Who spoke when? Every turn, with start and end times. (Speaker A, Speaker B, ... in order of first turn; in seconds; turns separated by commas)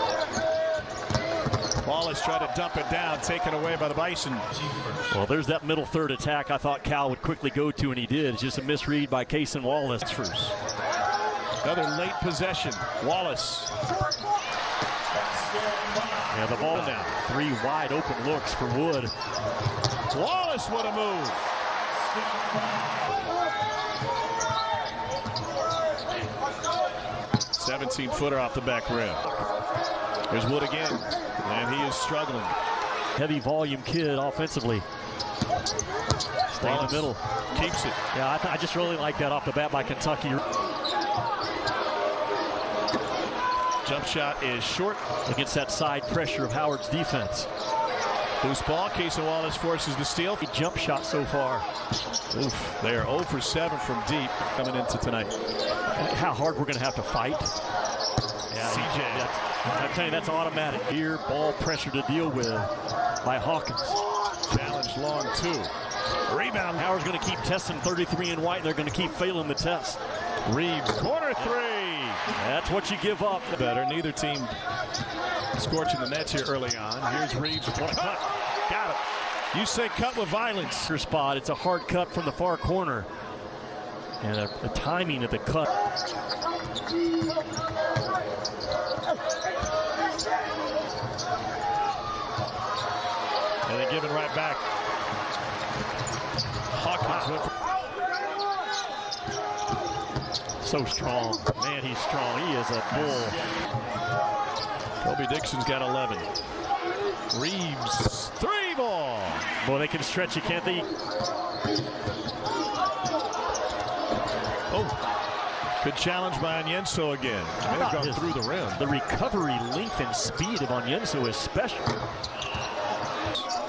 Speaker A: 1.8-4.5, Speaker B: 5.1-10.5, Speaker A: 11.6-13.7, Speaker B: 16.3-19.1, Speaker A: 16.7-17.1, Speaker A: 20.1-21.4, Speaker A: 27.6-29.4, Speaker A: 30.3-32.5, Speaker B: 33.2-34.9, Speaker B: 36.5-37.2, Speaker A: 36.6-38.0, Speaker B: 38.1-40.4, Speaker A: 43.8-45.0, Speaker B: 45.2-47.5, Speaker A: 48.4-50.4, Speaker B: 50.4-51.7, Speaker A: 52.3-55.3, Speaker B: 55.9-57.5, Speaker B: 58.5-62.7, Speaker A: 58.6-59.3, Speaker B: 63.2-64.0, Speaker A: 64.5-65.7, Speaker A: 66.3-67.0, Speaker B: 66.8-70.0, Speaker A: 70.5-72.3, Speaker B: 72.3-73.5, Speaker A: 73.5-74.5, Speaker A: 75.6-79.0, Speaker A: 79.5-80.9, Speaker B: 80.9-83.1, Speaker B: 84.2-85.7, Speaker A: 93.7-94.6, Speaker A: 96.7-97.5, Speaker B: 100.6-103.4, Speaker A: 105.0-106.3, Speaker A: 107.3-109.5, Speaker B: 109.6-110.9, Speaker A: 114.7-115.0, Speaker A: 115.8-118.8, Speaker B: 117.7-121.9